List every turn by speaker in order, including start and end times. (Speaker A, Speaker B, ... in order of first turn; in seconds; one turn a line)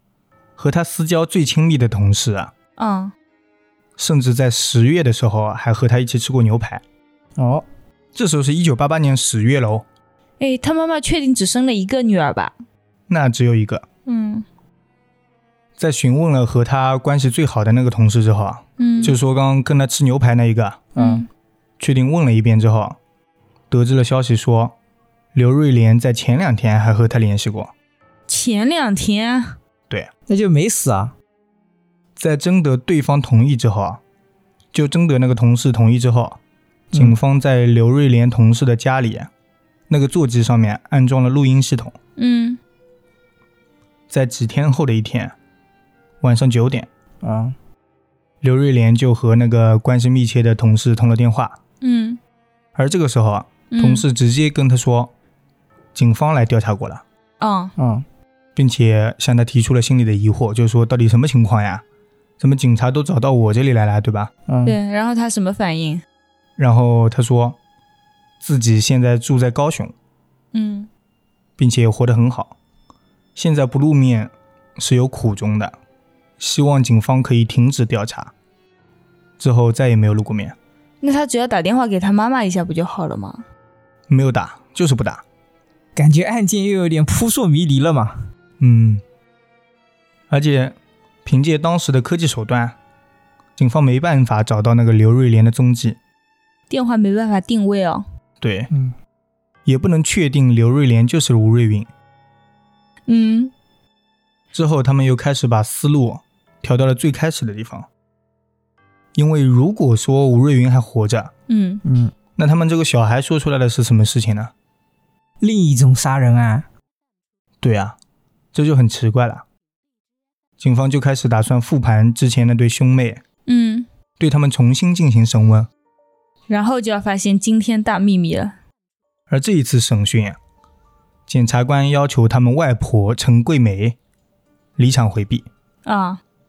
Speaker A: 0.6-2.5
Speaker B: 2.8-3.1
Speaker A: 4.0-6.8
Speaker C: 7.4-7.6
Speaker A: 8.1-9.8
Speaker B: 10.4-12.5
Speaker A: 13.1-13.8
Speaker B: 14.1-14.4
Speaker A: 15.8-20.8
Speaker B: 18.8-19.1
Speaker C: 20.9-21.2
Speaker B: 20.9-21.3
Speaker A: 21.8-23.0
Speaker A: 23.7-24.7
Speaker A: 25.3-27.7
Speaker B: 28.3-29.6
Speaker C: 30.3-31.1
Speaker A: 32.2-34.0
Speaker A: 34.7-36.4
Speaker C: 36.9-37.2
Speaker A: 36.9-39.3
Speaker A: 39.9-42.0
Speaker B: 42.2-42.6
Speaker A: 44.1-45.3
Speaker A: 46.2-46.9
Speaker C: 47.2-47.5
Speaker A: 48.4-51.6
Speaker B: 51.8-52.2
Speaker A: 52.8-55.1
Speaker B: 53.7-54.0
Speaker A: 55.9-57.0
Speaker B: 57.4-57.7
Speaker C: 57.8-58.0
Speaker A: 58.5-61.8
Speaker A: 62.4-64.3
Speaker C: 64.5-64.8
Speaker B: 64.6-66.0
Speaker A: 66.6-67.6
Speaker A: 68.4-69.9
Speaker B: 70.5-70.9
Speaker A: 71.6-72.5
Speaker A: 73.3-75.8
Speaker A: 76.4-78.3
Speaker A: 79.4-80.5
Speaker B: 81.0-83.4
Speaker A: 84.1-85.2
Speaker C: 85.9-88.2
Speaker A: 88.6-89.0
Speaker A: 90.3-92.8
Speaker A: 93.6-96.0
Speaker B: 96.7-98.0
Speaker A: 98.4-98.7
Speaker A: 99.7-101.9
Speaker B: 103.1-103.5
Speaker A: 104.5-107.9
Speaker A: 109.1-111.3
Speaker B: 111.5-111.8
Speaker C: 111.8-112.1
Speaker A: 112.3-114.5
Speaker C: 115.4-116.7
Speaker A: 117.6-118.0
Speaker A: 118.5-119.4
Speaker A: 120.6-123.2
Speaker B: 123.5-123.9
Speaker A: 124.2-125.7
Speaker B: 126.5-128.5
Speaker A: 129.3-130.4
Speaker A: 131.3-134.0
Speaker A: 134.8-135.4
Speaker B: 135.8-136.2